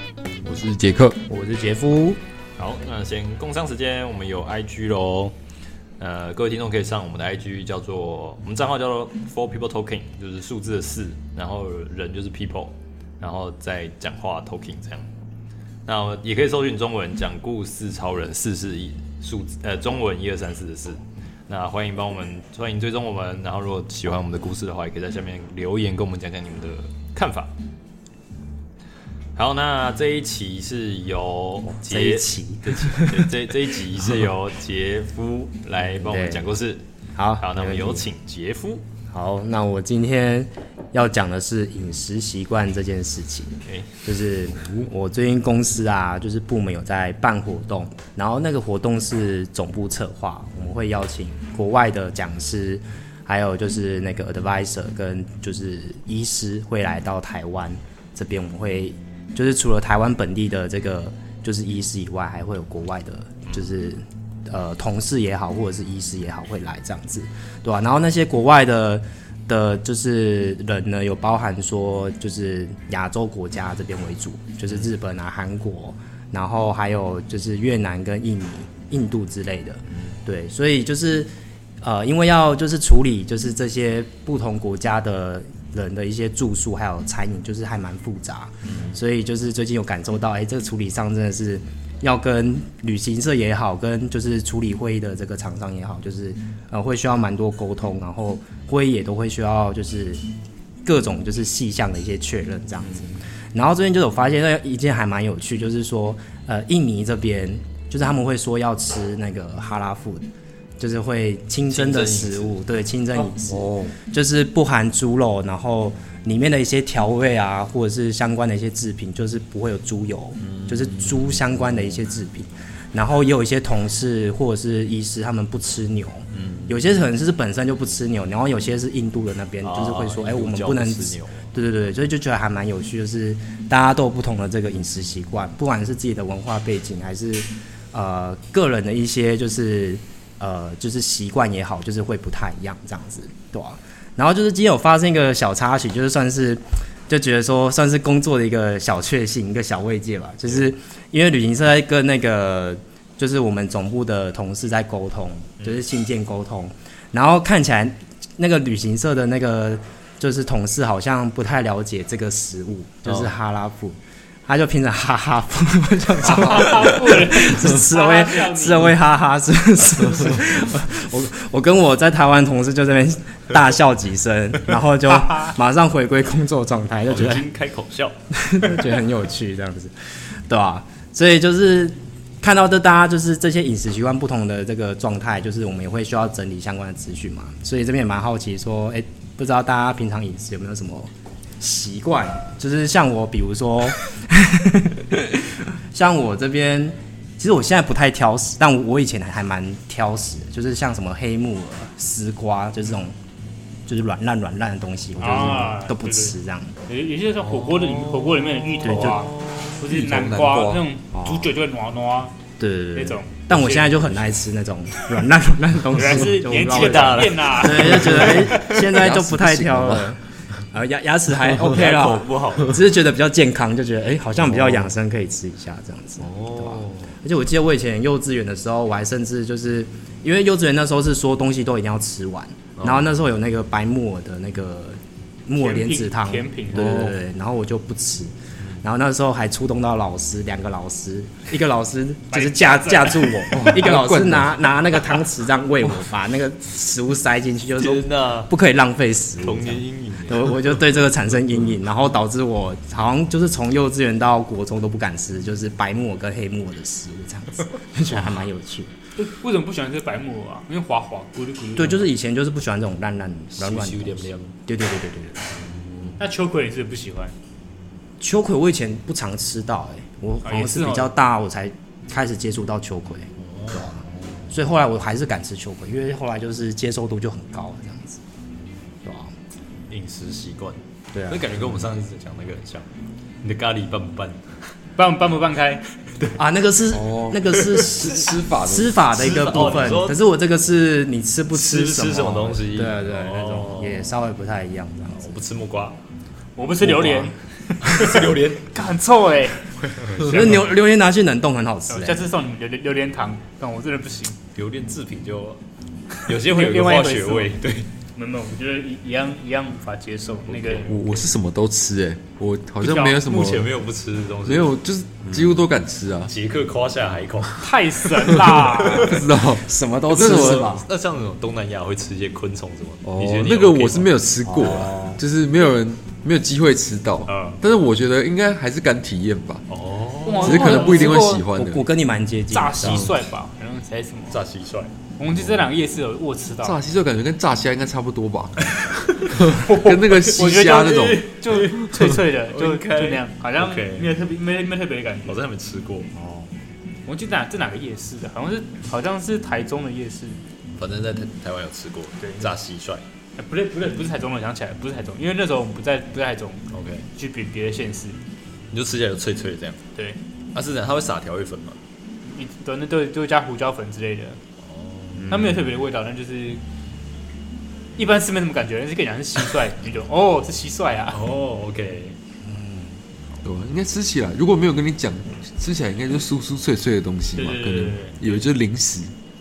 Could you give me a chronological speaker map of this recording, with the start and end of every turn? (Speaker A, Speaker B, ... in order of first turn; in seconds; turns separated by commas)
Speaker A: 0.4-1.2, Speaker B: 1.3-2.2, Speaker C: 2.6-5.3, Speaker C: 6.0-15.1, Speaker C: 15.8-27.5, Speaker C: 29.4-36.8, Speaker B: 31.7-33.2, Speaker B: 35.9-36.5, Speaker B: 37.1-38.0, Speaker C: 37.4-38.8, Speaker B: 39.1-81.3, Speaker B: 81.8-100.2, Speaker C: 88.6-89.0, Speaker B: 100.8-110.3, Speaker B: 110.8-177.5, Speaker C: 111.6-112.6, Speaker A: 113.5-113.9, Speaker C: 120.4-121.3, Speaker C: 126.3-126.8, Speaker C: 129.6-131.4, Speaker C: 163.0-163.3, Speaker D: 166.2-168.9, Speaker C: 177.1-178.1, Speaker B: 178.3-179.9, Speaker B: 180.5-203.2, Speaker B: 203.9-206.8, Speaker D: 205.2-206.3, Speaker D: 206.8-212.3, Speaker C: 207.4-209.7, Speaker B: 208.8-209.2, Speaker A: 209.8-210.8, Speaker B: 211.1-211.5, Speaker B: 212.6-258.9, Speaker D: 212.9-214.3, Speaker D: 215.9-218.7, Speaker C: 216.5-218.6, Speaker A: 218.3-220.1, Speaker C: 221.6-222.8, Speaker C: 224.5-224.8, Speaker C: 226.2-227.1, Speaker C: 232.8-233.1, Speaker D: 235.5-237.1, Speaker A: 236.7-237.1, Speaker C: 238.6-238.8, Speaker D: 242.3-243.5, Speaker A: 243.5-244.8, Speaker C: 247.8-248.5, Speaker C: 249.4-250.8, Speaker D: 259.1-262.1, Speaker B: 261.7-265.5, Speaker C: 263.6-264.5, Speaker C: 265.6-266.2, Speaker D: 266.2-267.3, Speaker B: 268.2-278.2, Speaker D: 270.4-271.1, Speaker C: 273.5-274.4, Speaker B: 279.0-279.3, Speaker C: 279.9-282.9, Speaker B: 281.1-281.8, Speaker C: 283.4-284.4, Speaker D: 285.0-285.8, Speaker B: 286.3-295.4, Speaker A: 286.9-289.0, Speaker C: 289.1-290.2, Speaker C: 291.5-294.1, Speaker C: 295.1-296.0, Speaker D: 296.6-300.8, Speaker B: 296.8-297.3, Speaker C: 297.8-298.7, Speaker C: 299.8-300.3, Speaker B: 300.2-302.2, Speaker D: 301.9-304.4, Speaker C: 304.5-305.6, Speaker C: 306.2-307.9, Speaker D: 306.3-307.5, Speaker D: 308.1-311.1, Speaker C: 310.4-311.0, Speaker A: 310.8-313.7, Speaker D: 312.8-313.2, Speaker C: 313.2-314.7, Speaker A: 314.4-316.3, Speaker C: 316.3-319.2, Speaker D: 317.6-319.1, Speaker A: 318.2-320.7, Speaker B: 319.5-320.8, Speaker C: 320.1-324.1, Speaker A: 323.0-329.6, Speaker B: 324.4-325.2, Speaker D: 327.3-327.6, Speaker C: 329.7-330.8, Speaker D: 330.2-331.4, Speaker A: 330.4-331.8, Speaker B: 330.5-333.1, Speaker D: 332.5-334.4, Speaker C: 332.8-333.1, Speaker C: 334.3-334.9, Speaker D: 335.2-336.8, Speaker A: 336.6-338.7, Speaker A: 339.2-341.7, Speaker D: 339.5-345.4, Speaker C: 341.9-344.1, Speaker C: 345.2-346.1, Speaker B: 346.1-346.5, Speaker D: 347.1-350.4, Speaker C: 350.8-353.0, Speaker D: 352.2-352.5, Speaker D: 353.4-358.2, Speaker C: 356.7-357.1, Speaker C: 358.7-359.8, Speaker C: 360.5-361.8, Speaker D: 362.2-364.4, Speaker C: 364.6-365.4, Speaker B: 365.2-365.6, Speaker D: 365.3-366.6, Speaker D: 368.0-371.2, Speaker C: 371.1-372.1, Speaker B: 372.4-373.0, Speaker A: 373.4-379.1, Speaker D: 377.3-378.2